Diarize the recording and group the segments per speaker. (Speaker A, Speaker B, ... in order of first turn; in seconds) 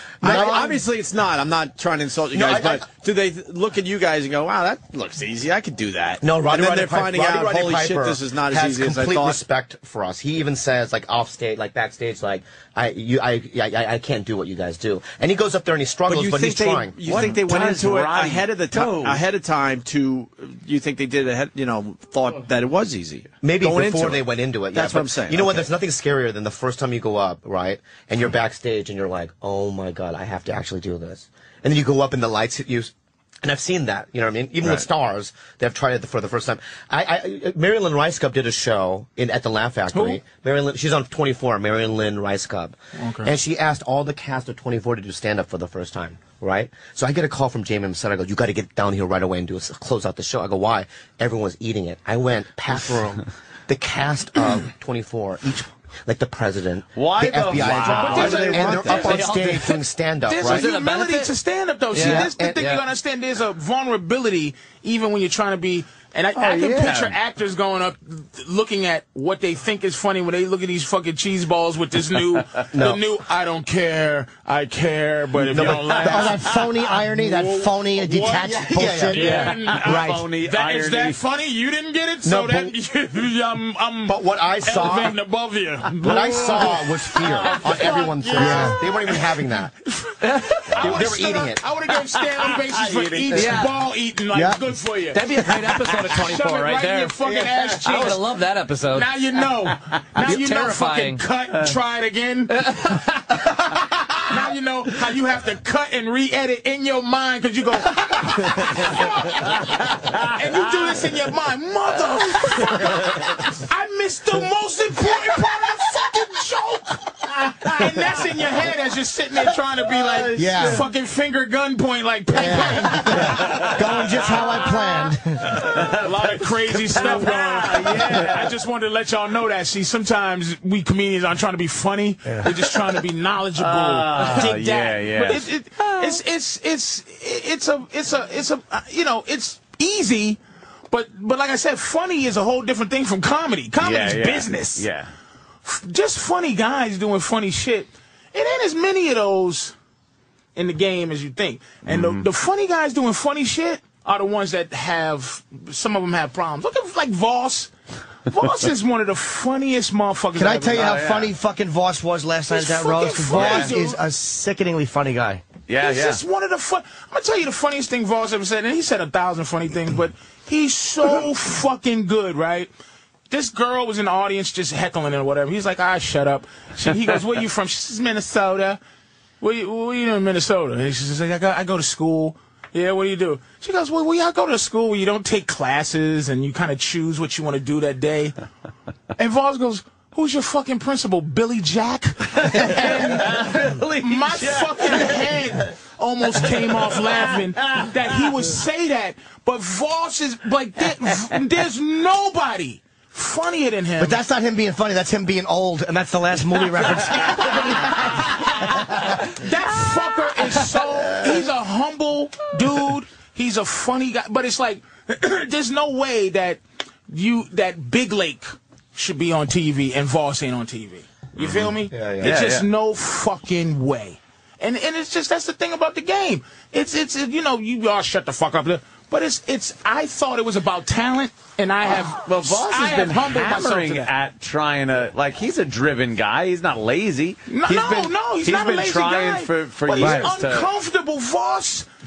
Speaker A: 0.2-0.8, 2.3-2.9, 6.2-17.3, 23.4-32.9, 33.4-60.7, 62.0-62.7, 72.7-73.0, 75.5-76.2, 78.5-79.6, 82.2-82.7, 84.1-85.2, 86.0-89.7, 90.8-91.6, 92.8-93.6, 221.9-222.4
Speaker B: 0.2-9.4, 16.1-25.7, 58.2-59.2
Speaker C: 0.2-0.8, 66.4-66.9, 75.5-80.3, 88.3-88.8, 94.3-94.7, 120.3-120.9, 122.3-125.8, 160.4-165.4, 204.0-209.2, 240.0-240.3
Speaker D: 17.1-19.2, 57.0-59.2, 66.8-67.2, 79.4-81.2, 120.1-120.6, 123.4-124.7, 125.5-128.5, 133.6-135.5, 143.8-145.1, 151.9-152.3, 160.7-161.3, 163.3-163.7, 165.7-166.2, 192.3-195.6, 196.4-197.9, 221.4-222.7, 231.9-240.7
Speaker E: 39.9-40.2, 43.0-43.3, 58.0-59.4, 60.4-89.2, 89.8-98.3, 98.9-123.8, 125.6-144.9, 145.7-149.8, 150.6-157.7, 158.2-161.0, 162.5-164.0, 165.8-172.7, 173.3-178.8, 179.4-188.3, 189.2-193.4, 194.0-204.2, 208.3-234.1, 237.5-241.9
Speaker F: 59.0-61.3, 61.9-62.8, 90.2-90.7, 93.3-93.8, 95.1-99.1, 100.2-101.2, 102.6-103.1